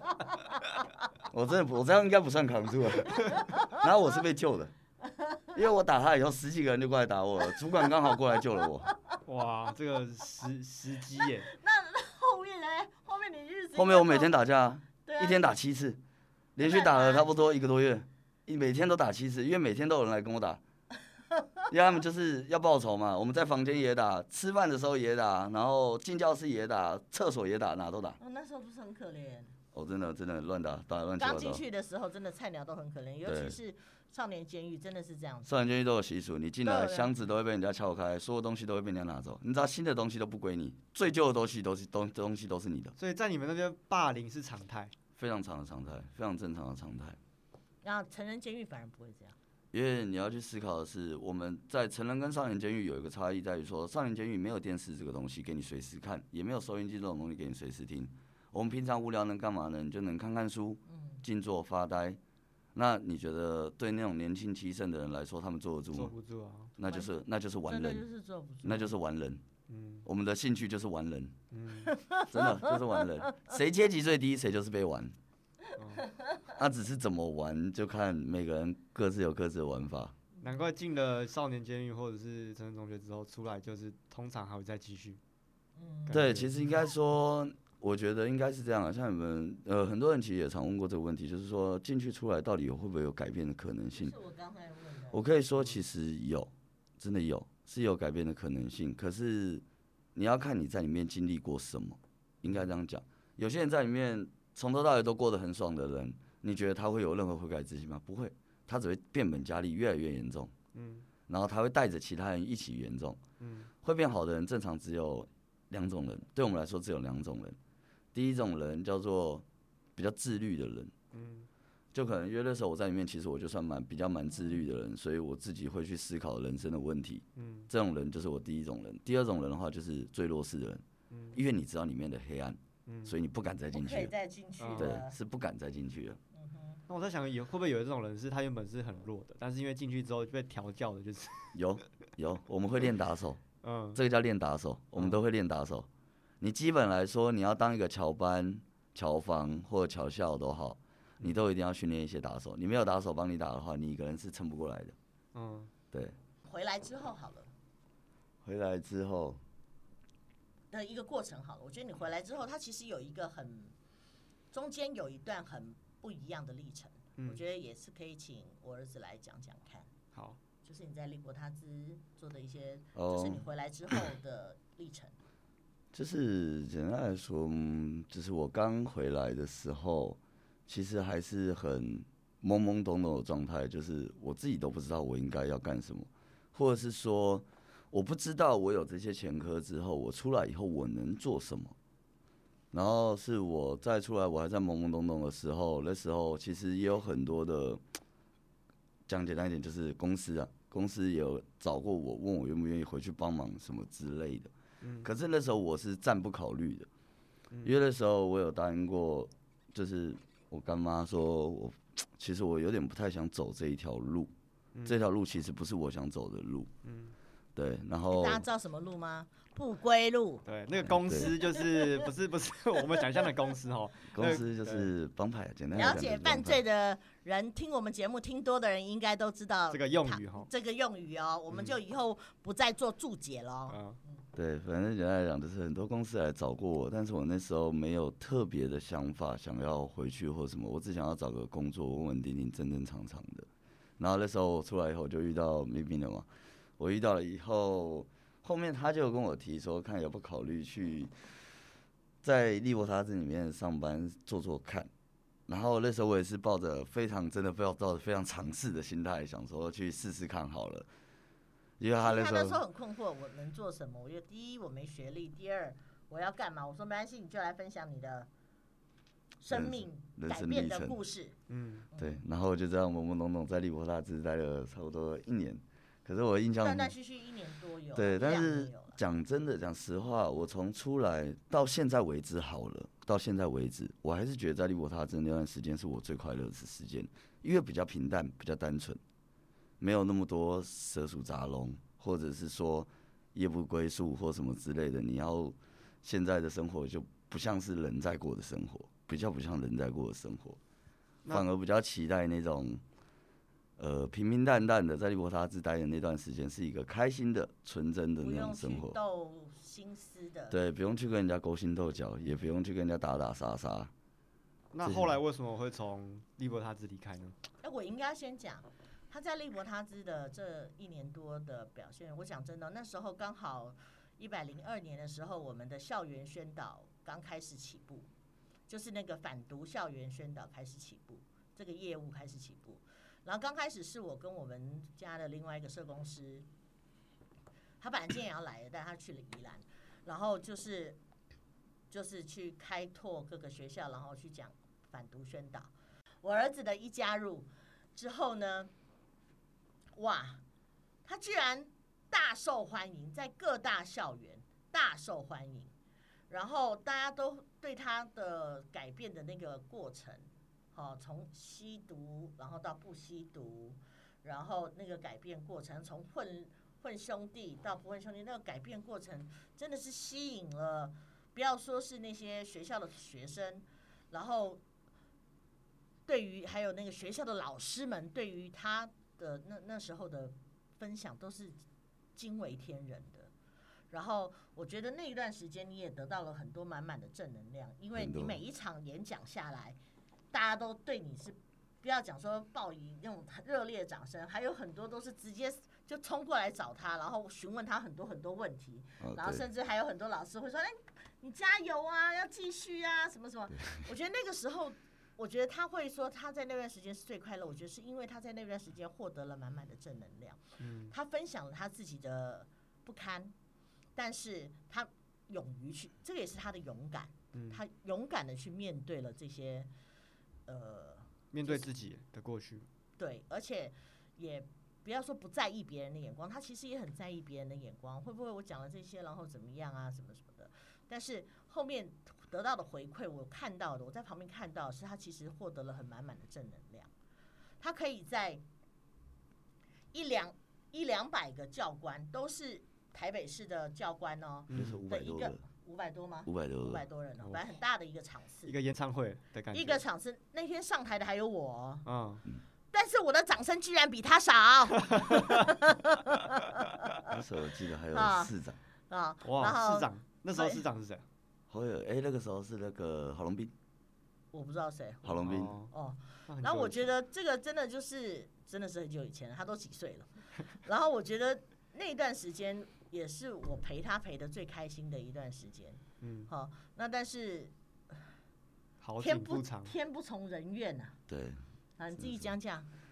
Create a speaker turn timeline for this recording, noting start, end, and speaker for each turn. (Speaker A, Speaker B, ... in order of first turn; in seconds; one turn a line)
Speaker A: 1.3-4.7
Speaker B: 3.2-3.9
Speaker B: 5.0-5.5
Speaker A: 5.5-8.9
Speaker C: 9.2-11.5
Speaker B: 11.2-14.3
Speaker A: 13.8-16.0
Speaker B: 15.1-15.6
Speaker A: 16.6-20.6
Speaker B: 16.6-17.3
Speaker A: 21.7-28.2
Speaker B: 28.2-29.6
Speaker A: 29.7-31.6
Speaker B: 31.2-35.5
Speaker A: 33.2-33.6
Speaker A: 35.5-43.0
Speaker B: 36.6-37.1
Speaker C: 43.0-44.9
Speaker A: 45.1-47.2
Speaker B: 47.8-49.4
Speaker A: 49.7-62.2
Speaker B: 60.9-61.2
Speaker A: 62.8-66.1
Speaker C: 65.9-66.7
Speaker A: 66.8-68.0
Speaker B: 66.8-67.1
Speaker B: 67.7-69.0
Speaker A: 68.6-69.4
Speaker C: 69.7-70.1
Speaker A: 70.0-71.4
Speaker C: 71.5-71.9
Speaker B: 71.9-73.3
Speaker A: 72.3-75.2
Speaker C: 75.8-76.1
Speaker B: 76.0-76.5
Speaker A: 76.5-80.2
Speaker C: 80.4-85.2
Speaker B: 85.8-86.4
Speaker C: 86.1-86.5
Speaker A: 86.1-94.1
Speaker B: 94.0-95.2
Speaker A: 95.1-99.6
Speaker A: 100.2-110.5
Speaker C: 110.7-111.1
Speaker A: 111.3-113.2
Speaker C: 113.4-113.7
Speaker A: 113.8-117.6
Speaker A: 118.1-119.5
Speaker A: 120.0-120.9
Speaker C: 121.1-121.5
Speaker A: 121.9-134.1
Speaker C: 127.4-127.7
Speaker C: 131.1-131.4
Speaker C: 132.9-133.2
Speaker B: 133.7-135.2
Speaker C: 134.6-135.0
Speaker A: 134.8-136.2
Speaker B: 136.3-136.8
Speaker C: 136.9-141.6
Speaker A: 141.5-143.4
Speaker C: 143.6-144.0
Speaker A: 143.9-145.9
Speaker A: 146.4-155.0
Speaker C: 155.3-155.7
Speaker B: 156.4-157.5
Speaker A: 158.4-159.4
Speaker B: 160.7-163.7
Speaker B: 164.5-169.9
Speaker C: 170.1-170.4
Speaker B: 170.6-175.2
Speaker A: 172.9-173.4
Speaker A: 175.9-191.8
Speaker A: 192.7-197.8
Speaker A: 199.1-206.9
Speaker C: 204.8-205.1
Speaker A: 207.6-214.3
Speaker A: 214.8-216.7
Speaker C: 216.8-217.2
Speaker A: 217.6-218.4
Speaker B: 218.1-220.4
Speaker C: 220.4-224.9
Speaker A: 220.9-221.3
Speaker B: 221.3-222.0
Speaker A: 224.1-226.6
Speaker B: 225.7-234.2
Speaker C: 229.7-230.5
Speaker C: 231.5-231.8
Speaker C: 233.7-234.0
Speaker A: 234.3-243.5
Speaker A: 244.0-246.3
Speaker A: 246.8-251.1
Speaker A: 252.2-254.9
Speaker A: 255.5-260.9
Speaker A: 261.8-262.6
Speaker B: 262.0-268.3
Speaker B: 269.4-271.4
Speaker A: 269.5-271.0
Speaker C: 271.5-271.9
Speaker B: 271.9-272.2
Speaker A: 272.0-276.9
Speaker B: 276.6-279.0
Speaker A: 277.9-289.0
Speaker A: 289.8-300.6
Speaker A: 301.3-302.8
Speaker A: 303.8-309.0
Speaker B: 308.2-310.6
Speaker A: 310.5-313.9
Speaker C: 314.7-317.4
Speaker A: 314.8-315.2
Speaker B: 317.6-328.1
Speaker B: 328.7-336.5
Speaker B: 337.8-341.0
Speaker B: 341.9-345.7
Speaker B: 346.2-348.7
Speaker B: 349.9-350.4
Speaker B: 351.1-355.7
Speaker B: 356.3-374.6
Speaker B: 376.1-381.6
Speaker B: 382.2-383.3
Speaker B: 383.9-389.8
Speaker A: 388.0-388.4
Speaker B: 390.3-413.3
Speaker A: 399.0-399.4
Speaker A: 403.6-403.9
Speaker C: 410.6-410.9
Speaker B: 414.0-419.7
Speaker C: 417.3-417.6
Speaker B: 420.5-421.6
Speaker C: 421.3-422.7
Speaker B: 423.0-436.9
Speaker B: 437.6-438.4
Speaker B: 439.9-448.6
Speaker C: 444.5-444.8
Speaker A: 444.5-445.4
Speaker A: 446.3-446.8
Speaker C: 448.5-449.8
Speaker B: 449.5-451.9
Speaker C: 451.9-452.2
Speaker B: 452.7-457.2
Speaker C: 454.9-455.5
Speaker A: 457.1-458.6
Speaker B: 457.9-458.3
Speaker B: 458.9-460.6
Speaker C: 459.2-461.1
Speaker A: 461.5-463.5
Speaker B: 464.3-478.0
Speaker A: 465.0-465.6
Speaker C: 465.2-465.7
Speaker C: 466.3-466.9
Speaker C: 476.0-476.3
Speaker C: 478.8-479.8
Speaker B: 479.0-481.0
Speaker A: 481.1-481.4
Speaker B: 481.8-482.7
Speaker A: 482.0-482.3